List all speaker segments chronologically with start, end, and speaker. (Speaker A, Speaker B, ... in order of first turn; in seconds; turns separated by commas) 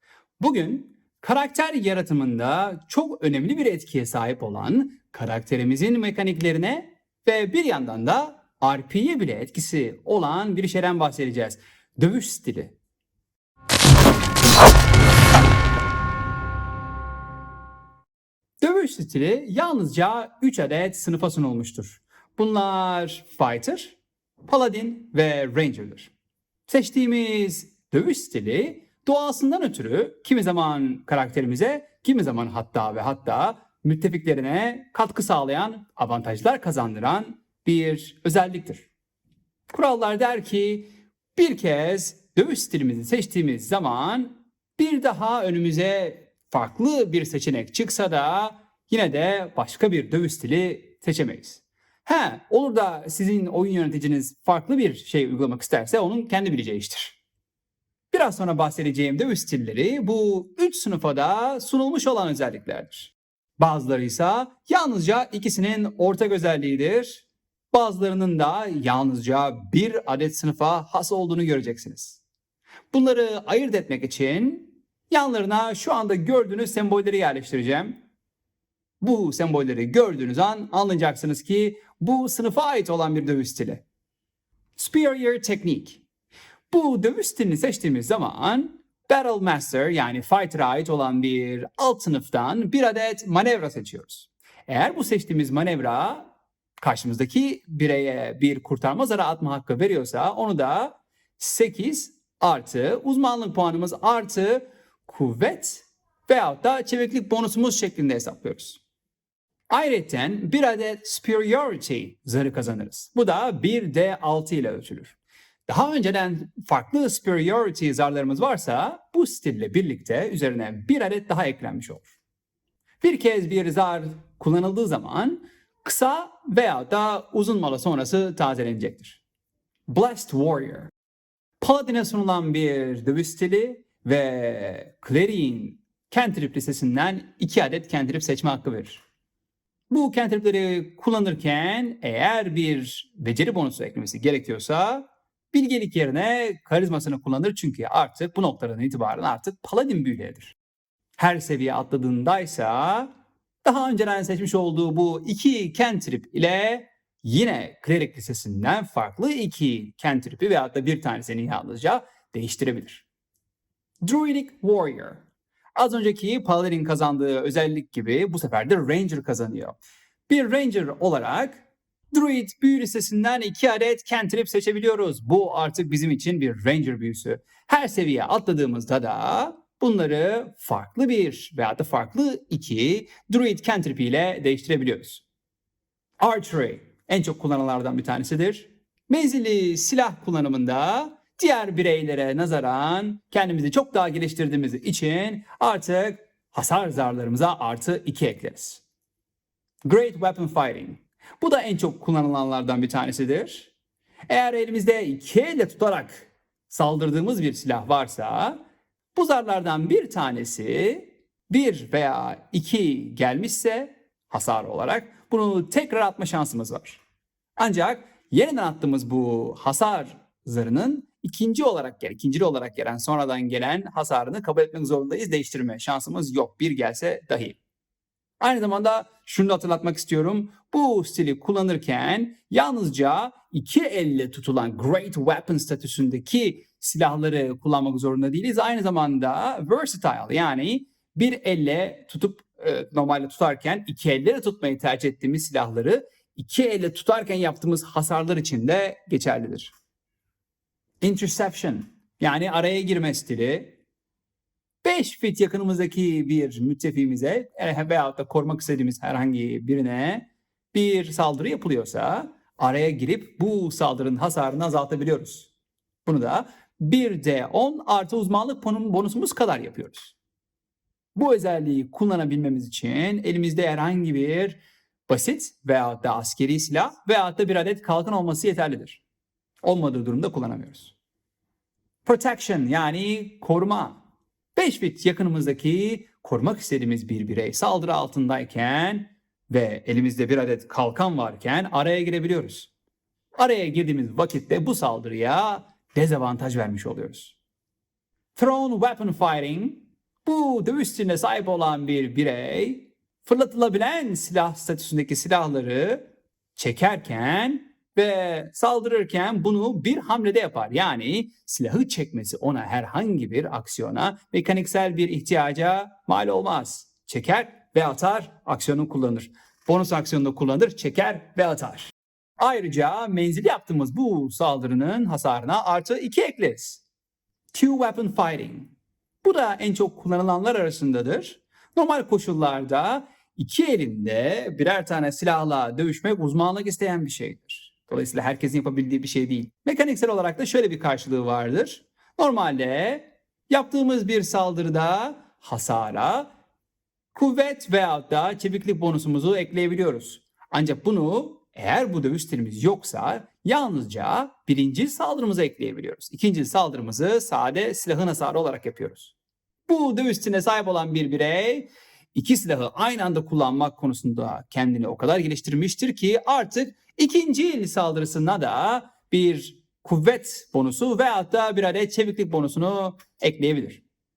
Speaker A: 0.4-12.8, Speaker A: 18.6-26.1, Speaker A: 26.7-38.9, Speaker A: 39.7-57.2, Speaker A: 58.1-72.2, Speaker A: 72.9-78.0, Speaker A: 79.0-83.8, Speaker A: 84.8-86.0, Speaker A: 86.7-108.8, Speaker A: 109.7-115.2, Speaker A: 115.7-122.1, Speaker A: 123.0-129.2, Speaker A: 129.9-130.9, Speaker A: 131.6-139.0, Speaker A: 139.9-150.6, Speaker A: 151.2-153.1, Speaker A: 153.6-163.1, Speaker A: 164.0-165.2, Speaker A: 165.8-169.8, Speaker A: 170.3-185.2, Speaker A: 186.2-198.8, Speaker A: 199.8-203.7, Speaker A: 204.3-208.6, Speaker A: 209.2-217.0, Speaker A: 217.6-227.6, Speaker A: 228.4-249.7, Speaker A: 251.0-253.8, Speaker A: 254.8-265.5, Speaker A: 266.1-270.2, Speaker A: 271.2-279.0, Speaker A: 279.6-280.9, Speaker A: 282.1-284.0, Speaker A: 284.6-292.7, Speaker A: 293.4-297.4, Speaker A: 298.4-306.0, Speaker A: 306.6-326.8, Speaker A: 327.5-328.7, Speaker A: 329.2-346.3, Speaker A: 347.1-359.1, Speaker A: 359.7-373.8